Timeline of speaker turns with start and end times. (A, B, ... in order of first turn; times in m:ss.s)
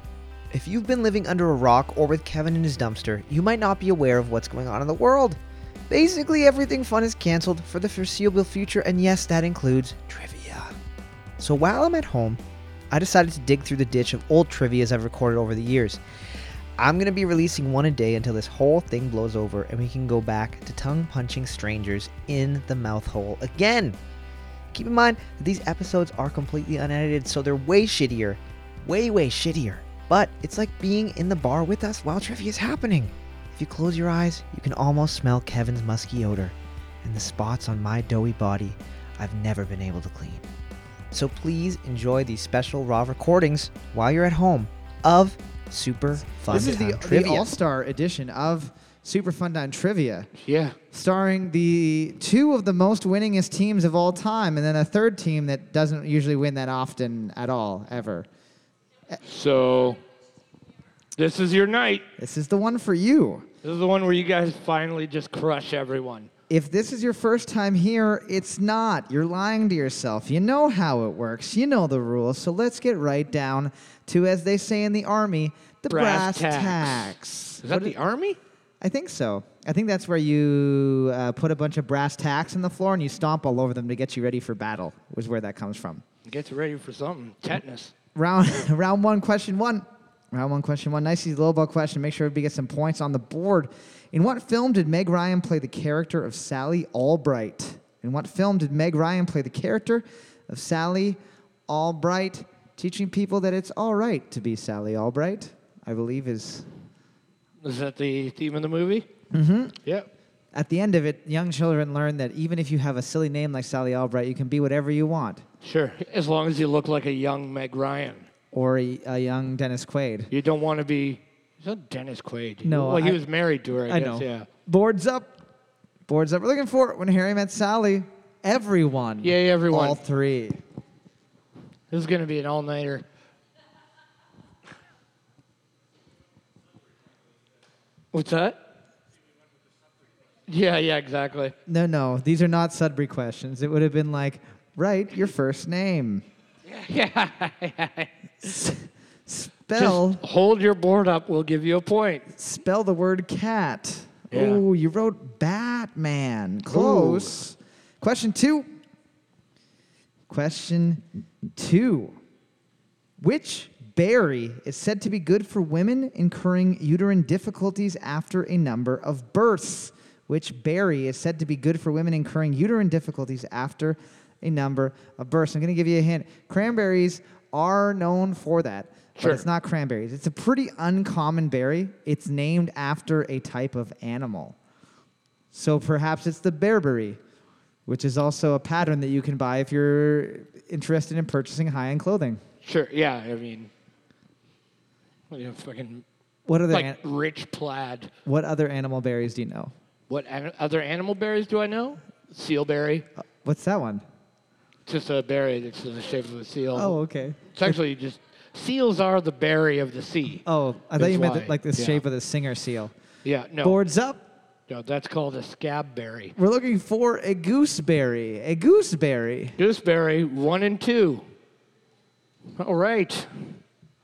0:00.5-0:05.4 A
0:05.9-0:10.7 A
0:11.4-0:12.4 A
0:12.9-0:16.0 A
0:16.8-0:24.0 A
0:24.7-0:40.4 A
0:41.1-0:47.5 A
0:46.5-0:50.3 B
0:50.4-0:50.8 C
0:50.9-0:58.3 B
0:59.2-1:00.0 C
1:01.2-1:02.1 C
1:02.2-1:03.5 B
1:03.6-1:06.3 C
1:06.5-1:18.0 B
1:15.9-1:18.4 C
1:18.8-1:26.0 B
1:26.3-1:27.9 C
1:28.2-1:46.7 B
1:47.6-1:49.1 C
1:49.3-1:49.8 B
1:49.8-1:50.1 C
1:50.5-1:55.4 B
1:55.6-1:58.3 C
1:58.5-2:00.3 B
2:00.3-2:04.5 C
2:02.6-2:03.2 B
2:03.8-2:05.4 B
2:06.1-2:10.6 B
2:09.2-2:10.0 C
2:11.9-2:13.0 C
2:18.1-2:18.6 C
2:20.5-2:21.6 C
2:21.7-2:26.2 B
2:26.7-2:28.1 C
2:28.4-2:30.2 B
2:29.8-2:32.3 C
2:32.3-2:38.7 B
2:34.3-2:34.6 C
2:36.7-2:37.4 C
2:40.3-2:42.2 B
2:43.2-3:04.6 B
2:59.2-2:59.5 C
3:05.5-3:07.2 B
3:07.9-3:12.4 B
3:12.6-3:13.7 C
3:15.3-3:16.0 C
3:16.5-3:17.0 B
3:16.7-3:18.1 C
3:18.2-3:19.7 B
3:20.1-3:23.1 C
3:23.4-3:24.0 B
3:24.9-3:27.0 C
3:26.7-3:27.8 B
3:27.5-3:30.4 C
3:30.4-3:32.9 B
3:31.0-3:32.0 C
3:33.2-3:33.8 C
3:33.6-3:34.2 B
3:34.7-3:36.4 C
3:36.4-3:39.6 B
3:39.6-3:41.2 C
3:42.6-3:43.6 C